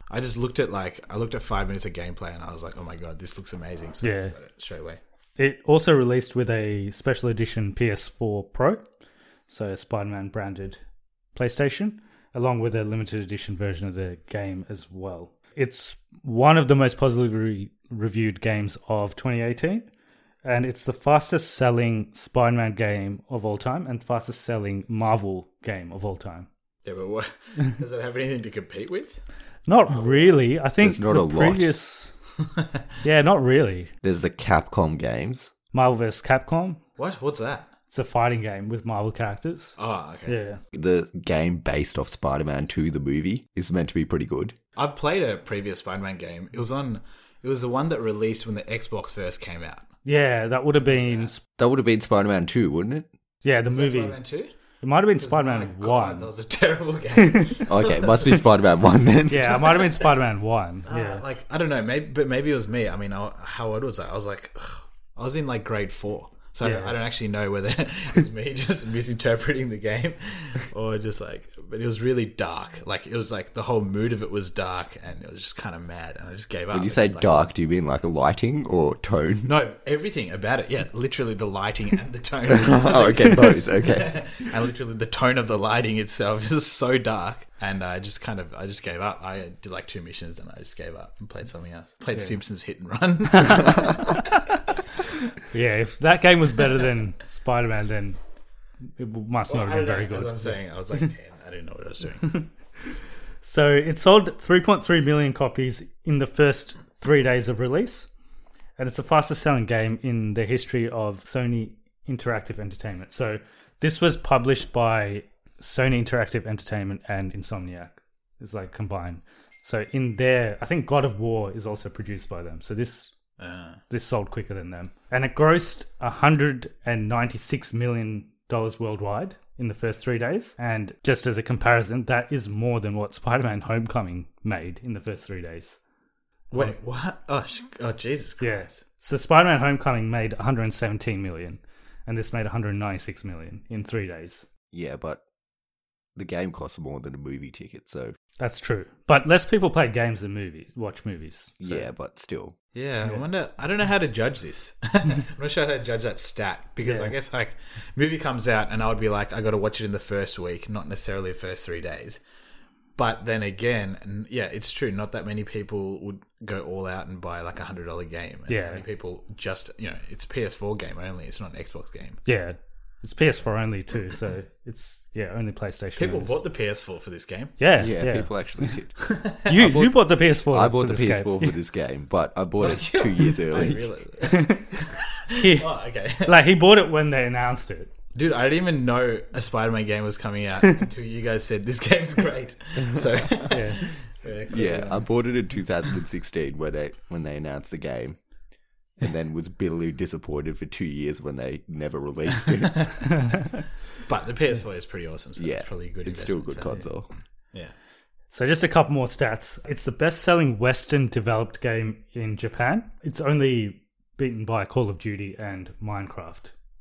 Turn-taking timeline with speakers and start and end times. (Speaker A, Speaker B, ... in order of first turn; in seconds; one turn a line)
Speaker A: 0.1-5.0
Speaker B: 4.0-4.3
Speaker B: 5.4-8.9
Speaker B: 9.5-10.8
Speaker B: 11.3-19.9
Speaker B: 20.4-26.5
Speaker A: 26.9-29.2
Speaker B: 29.7-32.1
Speaker A: 29.9-30.4
Speaker C: 30.8-31.7
Speaker B: 33.0-33.9
Speaker C: 34.0-35.5
Speaker B: 35.7-36.8
Speaker A: 37.0-37.7
Speaker B: 37.9-39.7
Speaker A: 39.8-40.3
Speaker B: 40.3-40.6
Speaker C: 40.7-44.5
Speaker A: 44.8-49.9
Speaker B: 50.0-51.4
Speaker A: 50.9-51.3
Speaker C: 51.6-53.1
Speaker B: 53.4-54.2
Speaker A: 53.7-54.5
Speaker B: 54.8-56.3
Speaker A: 55.1-58.4
Speaker C: 57.7-59.7
Speaker B: 59.3-61.2
Speaker A: 60.9-77.5
Speaker B: 66.6-66.9
Speaker C: 76.7-79.5
Speaker A: 79.4-94.0
Speaker C: 82.5-84.4
Speaker B: 95.5-98.2
Speaker B: 99.0-100.5
Speaker A: 99.5-102.5
Speaker B: 103.4-108.1
Speaker B: 108.8-123.1
Speaker A: 123.4-123.8
Speaker B: 123.9-135.8
Speaker A: 136.5-138.8
Speaker B: 138.4-144.5
Speaker C: 144.7-145.2
Speaker C: 146.2-148.1
Speaker B: 148.4-151.8
Speaker C: 151.6-152.6
Speaker A: 152.8-162.2
Speaker B: 156.8-157.1
Speaker A: 163.0-172.2
Speaker B: 168.5-168.8
Speaker B: 172.2-176.4
Speaker A: 176.0-177.6
Speaker B: 177.6-178.7
Speaker C: 177.8-178.9
Speaker A: 179.1-179.5
Speaker B: 179.4-181.6
Speaker C: 179.5-183.8
Speaker A: 182.6-186.3
Speaker B: 184.2-184.7
Speaker B: 185.4-185.7
Speaker B: 186.2-187.9
Speaker A: 188.2-195.1
Speaker C: 192.8-193.1
Speaker B: 193.5-193.8
Speaker C: 194.5-198.2
Speaker C: 199.0-202.9
Speaker A: 204.1-206.8
Speaker C: 205.4-207.1
Speaker B: 208.3-216.5